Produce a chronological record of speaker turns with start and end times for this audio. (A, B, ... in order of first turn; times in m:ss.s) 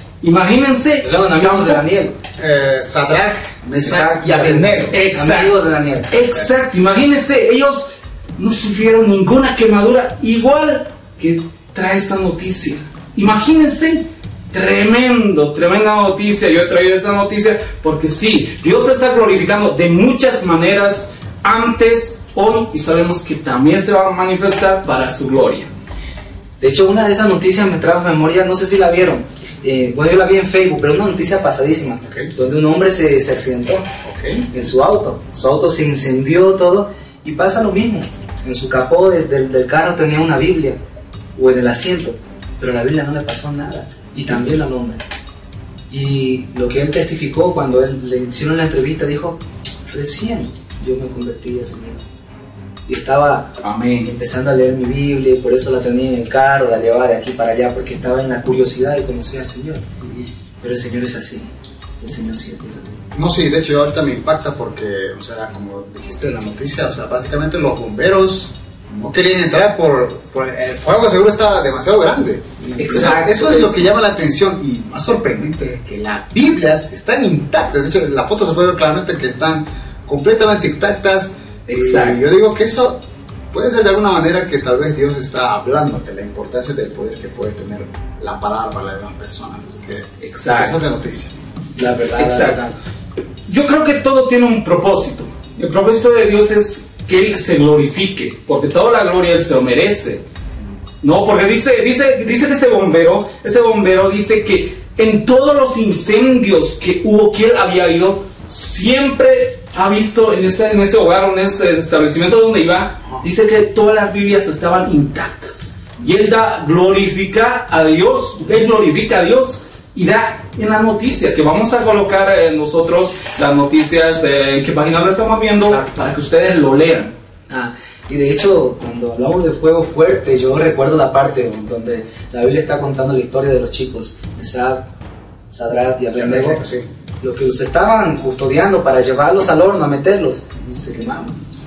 0:00.2-0:01.8 A
0:01.0-0:02.2 B
0:02.4-0:05.0 C
0:03.8-0:06.1 B
0:04.9-0:05.5 A
0:06.1-0:25.7 A
0:26.6-0:33.9 B
0:32.0-0:32.3 C
0:34.0-0:34.5 C
0:34.5-0:40.8 B
0:41.4-0:45.0 B
0:45.9-0:52.0 B
0:52.9-0:59.8 B
0:53.6-0:54.1 A
1:00.0-1:00.3 C
1:00.6-1:01.5 B
1:02.0-1:03.0 B
1:03.1-1:31.4 C
1:12.8-1:13.7 A
1:12.9-1:13.5 B
1:21.7-1:22.2 A
1:30.2-1:30.8 A
1:31.8-1:32.7 B
1:32.2-1:32.6 A
1:33.5-1:40.2 A
1:41.0-2:07.1 A
2:07.5-2:14.9 B
2:15.5-2:16.6 B
2:16.1-2:16.9 C
2:17.2-2:21.4 B